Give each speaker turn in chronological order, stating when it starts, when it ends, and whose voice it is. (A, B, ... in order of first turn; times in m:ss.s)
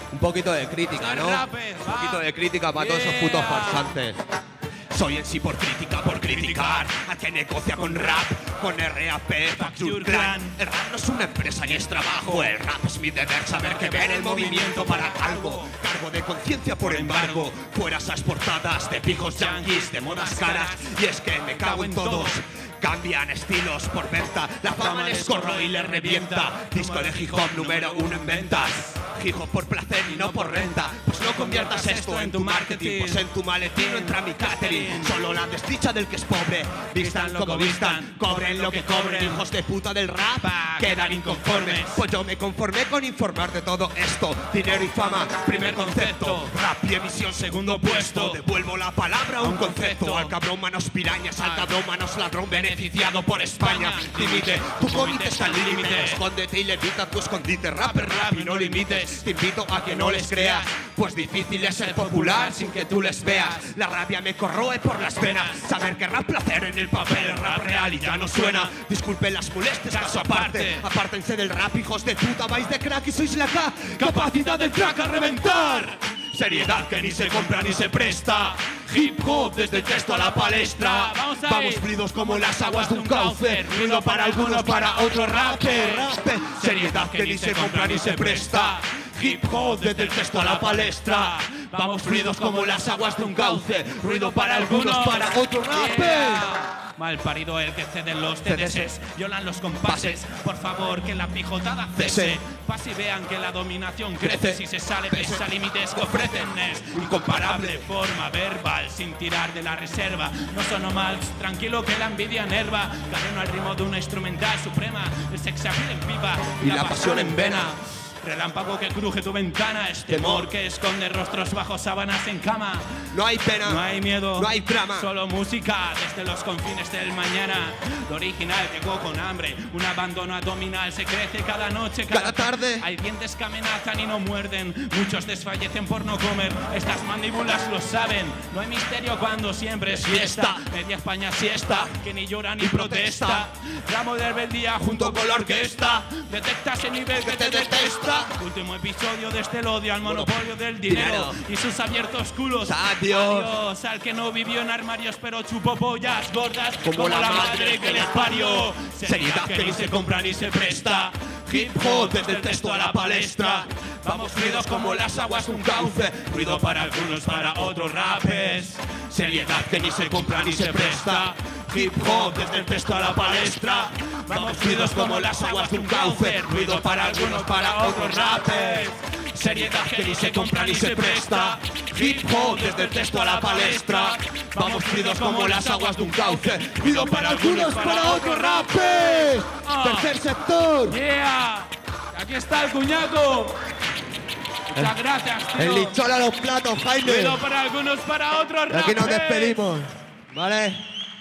0:00.1-0:04.2 A
0:00.9-0:02.2 B
0:02.7-0:03.9 B
0:04.9-1:36.5 A
0:06.1-0:06.9 B
0:07.8-0:08.3 B
0:09.6-0:10.6 B
0:11.7-0:12.5 B
0:13.5-0:15.8 B
0:16.8-0:17.5 B
0:19.3-0:22.4 B
0:24.7-0:29.0 B
0:30.0-0:35.2 B
0:37.0-0:39.4 B
0:40.4-0:42.0 B
0:45.0-0:46.6 B
0:47.4-0:48.4 B
0:49.4-0:50.4 B
0:51.4-0:51.8 B
0:52.5-0:56.2 B
0:57.8-1:03.7 B
1:05.1-1:05.7 B
1:06.9-1:08.7 B
1:09.9-1:10.9 B
1:14.0-2:03.1 B
1:38.4-1:38.9 A
1:39.9-1:40.2 A
1:42.0-1:42.4 A
1:44.2-1:47.9 A
1:56.6-1:57.7 A
2:00.1-2:00.5 A
2:03.1-2:03.8 A
2:03.6-3:10.1 B
2:04.4-2:05.1 A
2:12.1-2:12.9 A
2:20.0-2:20.6 A
2:22.6-2:23.5 A
2:24.8-2:26.0 A
2:27.2-2:28.4 A
2:30.0-2:30.3 A
2:30.9-2:31.4 A
2:32.6-2:33.5 A
2:36.8-2:46.9 A
2:49.1-3:11.0 A
3:10.9-3:13.6 B
3:14.7-3:15.0 A
3:14.7-3:16.0 B
3:15.6-3:17.4 A
3:17.0-3:19.6 B
3:18.7-3:20.8 A